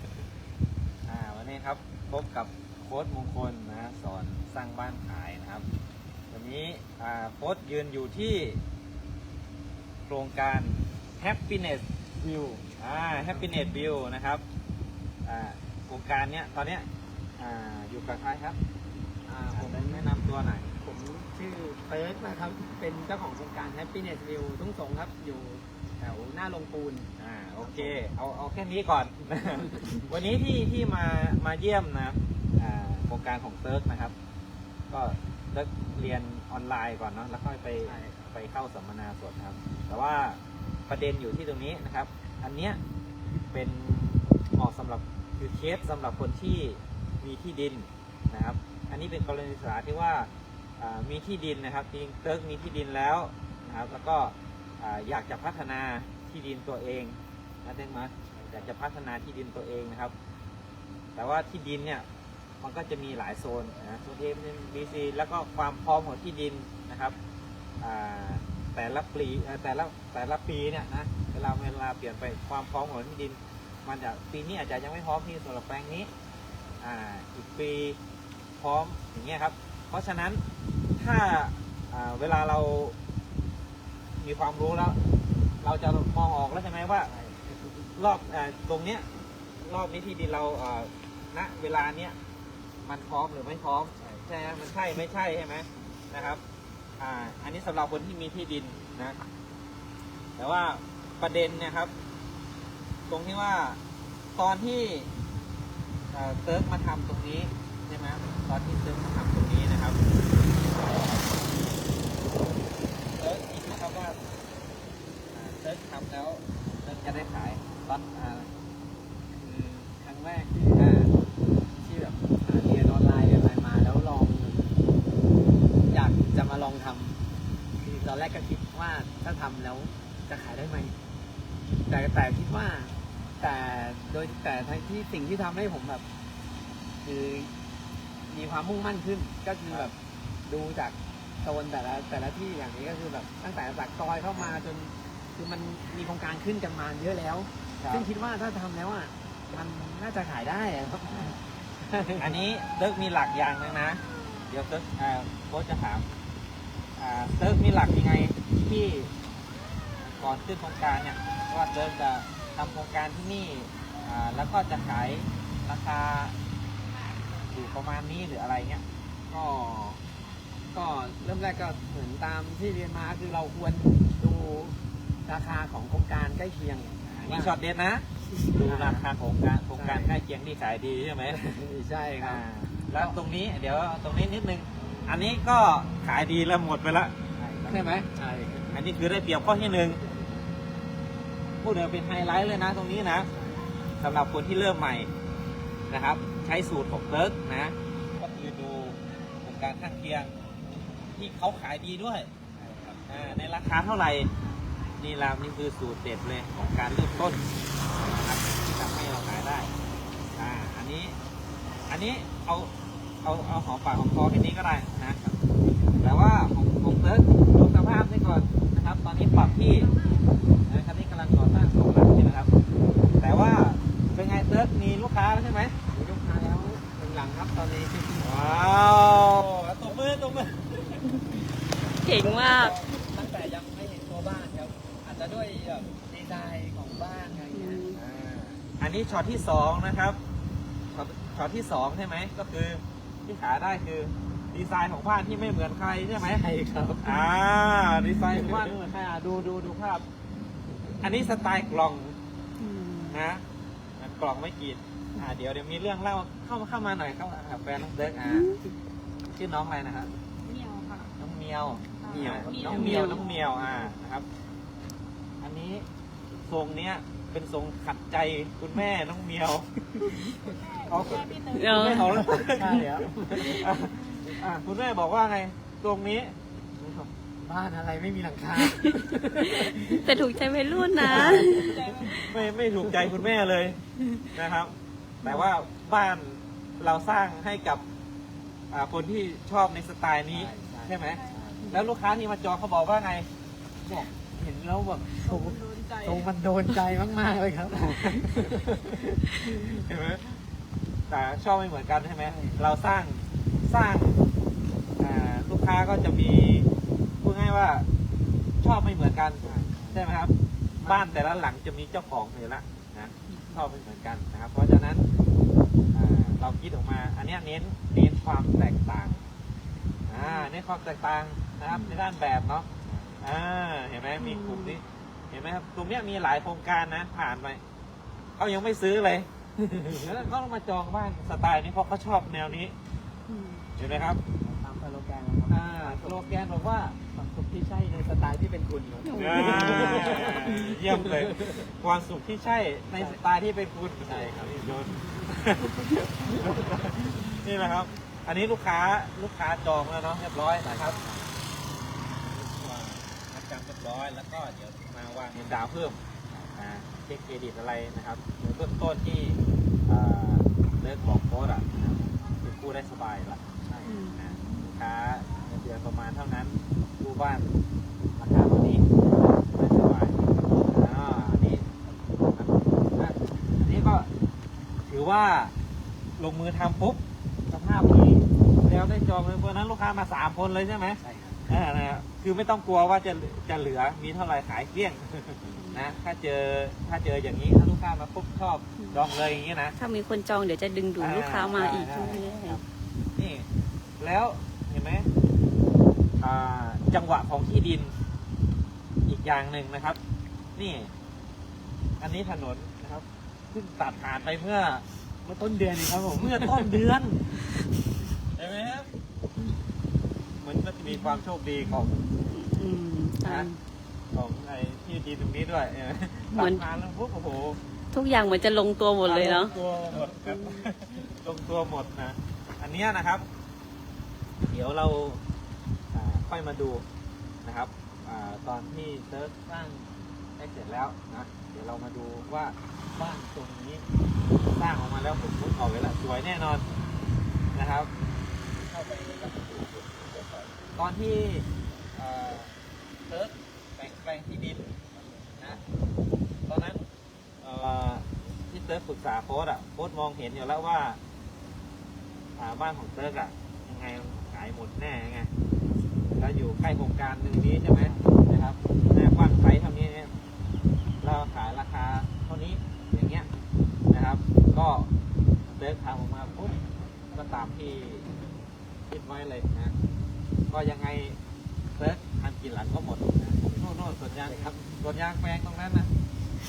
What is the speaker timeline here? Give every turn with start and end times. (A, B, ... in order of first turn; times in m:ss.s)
0:01.1-0:05.7 A
0:06.3-0:08.6 A
0:10.1-0:14.4 A
0:13.2-0:13.5 B
0:15.2-0:16.9 A
0:17.4-0:18.6 A
0:19.3-0:20.1 B
0:19.5-0:20.7 A
0:20.8-0:27.1 B
0:27.2-0:34.1 A
0:27.6-0:28.0 B
0:34.9-0:42.8 A
0:37.8-0:38.2 B
0:43.5-1:00.1 A
0:58.3-0:58.7 B
1:01.2-1:02.1 A
1:02.6-1:07.2 A
1:07.8-1:16.1 A
1:16.8-1:18.0 A
1:18.6-1:20.4 A
1:21.0-1:23.0 A
1:24.2-1:25.0 A
1:25.6-1:27.1 A
1:27.1-1:27.9 B
1:28.0-1:29.1 A
1:29.6-1:32.2 A
1:32.8-1:36.4 A
1:34.0-1:34.3 B
1:37.0-1:39.2 A
1:40.4-1:41.9 A
1:43.1-1:43.8 A
1:44.4-1:45.1 A
1:46.1-1:50.0 A
1:50.8-1:51.3 A
1:53.2-1:54.2 A
1:55.3-1:58.5 A
1:59.3-2:01.0 B
2:00.8-2:01.1 A
2:01.8-2:04.6 B
2:05.9-2:07.2 B
2:07.8-2:11.0 B
2:11.9-2:16.0 B
2:17.0-2:17.5 B
2:18.3-2:32.4 B
2:27.8-2:28.1 A
2:31.1-2:31.4 A
2:32.2-2:36.1 A
2:37.0-2:39.1 A
2:40.0-2:46.4 A
2:47.5-2:48.8 A
2:49.3-2:50.0 B
2:50.7-2:57.6 B
2:57.1-3:01.4 A
2:58.4-2:59.0 B
2:59.7-3:00.2 B
3:01.3-3:03.2 B
3:02.2-3:08.0 A
3:07.6-3:08.8 B
3:08.7-3:10.0 A
3:10.0-3:10.6 B
3:11.6-3:13.3 A
3:13.2-3:13.8 B
3:14.0-3:15.1 A
3:15.9-3:20.3 A
3:21.2-3:22.3 A
3:22.6-3:23.4 B
3:22.9-3:24.3 A
3:25.0-3:29.7 A
3:30.4-3:31.2 A
3:31.9-3:32.7 A
3:33.2-3:35.3 A
3:36.0-3:39.9 A
3:40.7-3:42.5 A
3:43.2-3:45.8 A
3:45.9-3:48.5 B
3:48.2-3:51.4 A
3:52.0-3:52.8 C
3:52.1-3:57.9 B
3:57.5-3:58.0 C
3:57.9-4:00.2 A
4:00.9-4:06.4 A
4:06.2-4:07.2 B
4:07.0-4:10.1 A
4:08.3-4:08.8 B
4:11.0-4:12.2 A
4:12.6-4:13.2 C
4:13.1-4:13.4 A
4:14.0-4:18.6 A
4:18.3-4:18.6 C
4:19.3-4:20.1 A
4:20.5-4:21.1 D
4:21.2-4:24.3 A
4:22.0-4:23.2 D
4:22.1-4:23.2 B
4:22.6-4:23.2 C
4:25.4-4:25.9 A
4:26.5-4:30.3 A
4:30.4-4:32.1 D
4:30.9-4:37.1 A
4:31.5-4:32.2 C
4:32.4-4:33.7 B
4:37.4-4:40.2 B
4:39.5-4:41.8 C
4:41.0-4:47.8 A
4:41.1-4:41.6 B
4:41.4-4:42.4 D
4:48.7-4:53.3 A
4:50.3-4:51.7 B
4:53.8-4:59.0 B
4:55.2-4:56.2 D
4:59.4-5:00.2 A
5:01.1-5:04.2 A
5:02.2-5:02.6 B
5:05.0-5:07.9 A
5:08.6-5:15.1 A
5:09.4-5:10.0 B
5:10.8-5:11.2 B
5:15.9-5:19.2 A
5:20.1-5:22.7 A
5:20.2-5:20.5 C
5:21.7-5:22.0 C
5:22.8-5:23.2 B
5:23.2-5:27.6 A
5:24.2-5:24.8 C
5:28.4-5:29.3 A
5:29.8-5:30.1 B
5:29.9-5:32.8 A
5:33.3-5:33.7 C
5:33.8-5:34.2 A
5:34.3-5:36.3 B
5:35.5-5:37.0 A
5:37.0-5:41.7 B
5:39.0-5:40.2 C
5:39.2-5:51.0 A
5:44.1-5:44.5 B
5:46.2-5:46.8 B
5:50.6-5:51.3 B
5:52.2-5:56.0 A
5:56.6-6:03.4 A
6:03.7-6:04.0 B
6:03.8-6:04.6 C
6:04.2-6:07.5 A
6:08.2-6:08.9 A
6:09.5-6:11.7 A
6:12.4-6:14.1 A
6:14.9-6:15.5 A
6:16.2-6:29.8 A
6:21.0-6:21.5 B
6:25.5-6:25.8 C
6:28.8-6:29.0 C
6:29.8-6:32.6 C
6:31.0-6:32.6 A
6:32.0-6:32.2 B
6:33.2-6:33.5 A
6:34.0-6:35.1 A
6:36.2-6:37.9 A
6:39.1-6:40.0 A
6:40.6-6:40.9 A
6:42.0-6:44.8 A
6:45.2-6:46.8 B
6:46.0-6:47.2 A
6:48.4-6:48.9 A
6:50.4-6:53.5 A
6:51.0-6:53.6 C
6:54.1-6:57.6 A
6:56.3-6:56.6 C
6:57.9-7:00.7 C
6:59.0-7:03.3 A
6:59.5-6:59.8 B
7:04.4-7:05.2 A
7:05.9-7:06.9 A
7:07.4-7:09.4 A
7:09.5-7:09.9 B
7:10.4-7:13.8 A
7:14.5-7:16.6 A
7:17.5-7:17.9 A
7:18.6-7:20.5 B
7:20.8-7:22.5 A
7:23.1-7:24.7 A
7:25.0-7:25.6 B
7:26.5-7:26.9 A
7:27.4-7:31.0 A
7:32.4-7:35.3 A
7:35.6-7:36.2 B
7:36.2-7:40.1 A
7:37.7-7:38.2 B
7:41.0-7:43.3 A
7:43.9-7:44.9 A
7:45.6-7:46.6 A
7:47.1-7:48.1 A
7:48.9-7:49.8 A
7:50.5-7:51.2 A
7:51.8-7:55.9 A
7:53.5-7:54.8 B